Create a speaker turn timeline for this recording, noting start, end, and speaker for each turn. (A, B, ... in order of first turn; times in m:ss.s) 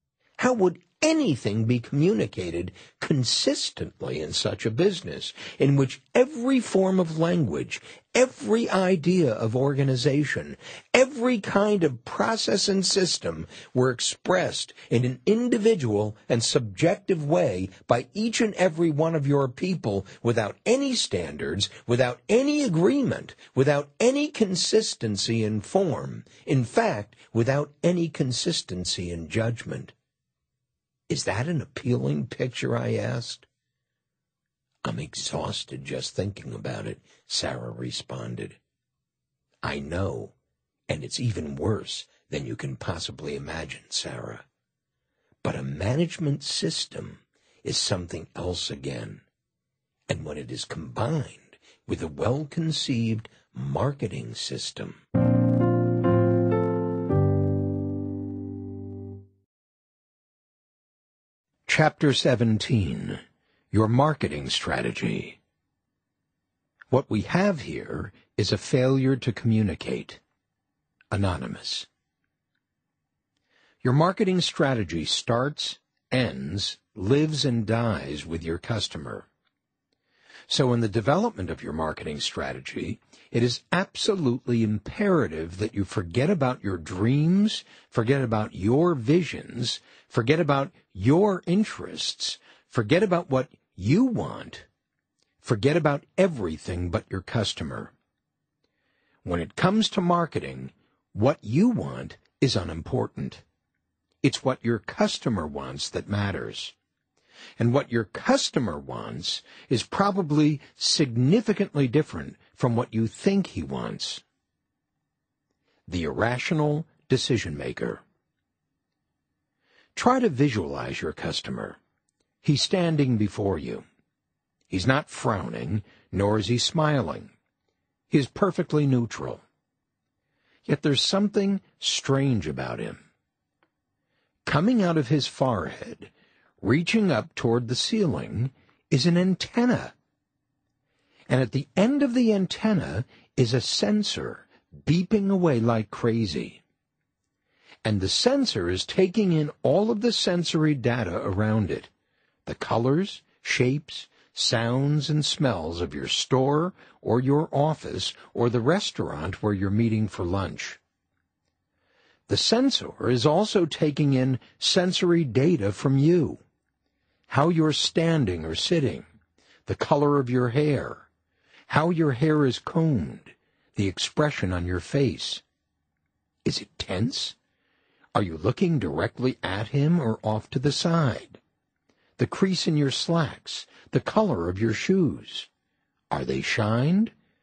0:00.4-0:29.9 A
0:31.1-0:33.4 A
0:34.8-0:38.6 A
0:39.6-0:40.3 A
0:40.9-0:44.4 A
0:45.4-0:49.2 A
0:50.1-0:55.0 A
1:01.7-1:03.2 A
1:03.7-1:05.4 A
1:06.9-1:10.2 A
1:11.1-1:11.9 A
1:13.8-1:19.3 A
1:20.5-1:34.6 A
1:35.4-1:37.9 A
1:39.2-1:43.4 A
1:44.2-1:46.7 A
1:47.6-1:54.2 A
1:55.9-1:58.0 A
1:59.9-2:01.8 A
2:02.4-2:03.8 A
2:04.7-2:07.3 A
2:08.1-2:09.4 A
2:10.6-2:13.0 A
2:14.4-2:19.9 A
2:21.3-2:26.6 A
2:27.8-2:31.9 A
2:32.4-2:40.8 A
2:42.3-2:46.4 A
2:47.3-2:49.0 A
2:49.7-2:51.1 A
2:51.7-2:55.4 A
2:56.4-2:57.4 A
2:58.1-3:01.4 A
3:02.2-3:05.5 A
3:06.1-3:07.1 A